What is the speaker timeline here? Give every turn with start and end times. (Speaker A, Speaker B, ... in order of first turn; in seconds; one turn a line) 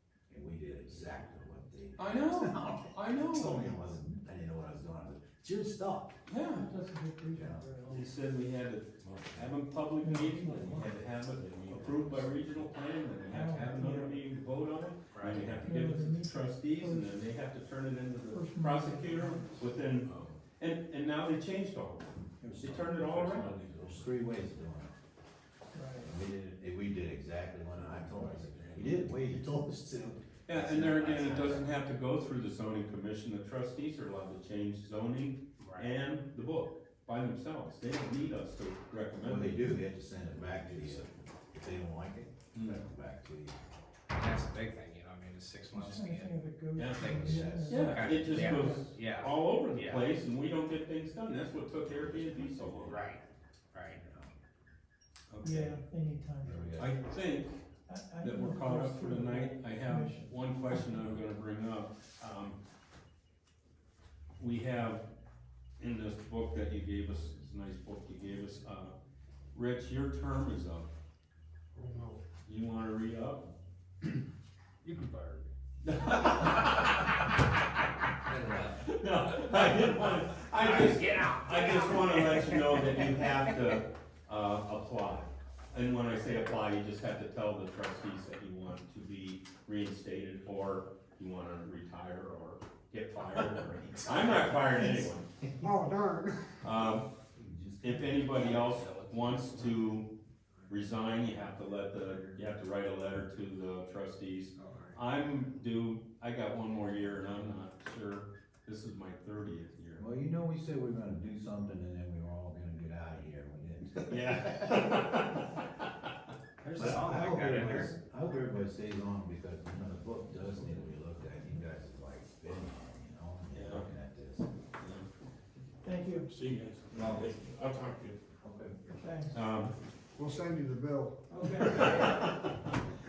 Speaker A: 0.3-6.2
Speaker B: 2.0-3.8
Speaker B: 6.3-6.7
Speaker C: 6.5-8.0
Speaker A: 7.3-7.8
Speaker B: 7.8-23.5
Speaker D: 9.0-9.6
Speaker C: 10.0-10.8
Speaker D: 10.7-12.7
Speaker C: 13.3-14.1
Speaker E: 15.1-15.6
Speaker C: 15.6-17.1
Speaker C: 18.3-19.7
Speaker D: 20.0-20.4
Speaker A: 22.4-24.9
Speaker D: 22.5-24.1
Speaker C: 25.7-26.1
Speaker A: 26.0-31.7
Speaker D: 27.7-29.3
Speaker B: 30.5-39.6
Speaker E: 35.6-35.9
Speaker A: 39.2-43.5
Speaker D: 40.2-41.3
Speaker B: 42.5-42.8
Speaker E: 44.1-46.4
Speaker C: 45.7-47.8
Speaker B: 46.8-53.0
Speaker A: 46.9-48.5
Speaker E: 46.9-50.0
Speaker C: 48.4-48.9
Speaker A: 51.9-53.0
Speaker E: 52.9-53.2
Speaker E: 53.7-54.0
Speaker A: 54.0-54.3
Speaker B: 55.3-55.8
Speaker C: 55.4-56.7
Speaker A: 56.4-57.1
Speaker B: 56.7-57.6
Speaker C: 57.9-61.0
Speaker B: 58.2-62.6
Speaker B: 64.4-65.1
Speaker B: 65.8-69.0
Speaker B: 69.5-70.9
Speaker F: 71.7-72.2
Speaker B: 72.4-73.4
Speaker E: 74.8-75.5
Speaker B: 75.8-77.5
Speaker E: 76.2-77.0
Speaker E: 78.2-78.9
Speaker B: 78.8-95.3
Speaker E: 79.5-83.8
Speaker D: 93.3-94.9
Speaker F: 95.6-96.5
Speaker B: 96.6-97.1
Speaker A: 97.3-98.4
Speaker B: 97.8-100.1
Speaker E: 98.3-99.5
Speaker B: 100.7-110.0
Speaker A: 110.0-115.0
Speaker B: 114.1-115.8
Speaker E: 116.6-117.9
Speaker A: 116.8-124.5
Speaker B: 123.5-123.9
Speaker B: 124.8-125.1
Speaker C: 125.8-126.3
Speaker D: 126.3-128.2
Speaker A: 126.9-127.2
Speaker A: 128.4-129.0
Speaker C: 129.0-129.3
Speaker B: 129.3-129.7
Speaker F: 130.2-131.6
Speaker C: 131.3-132.2
Speaker B: 131.4-132.7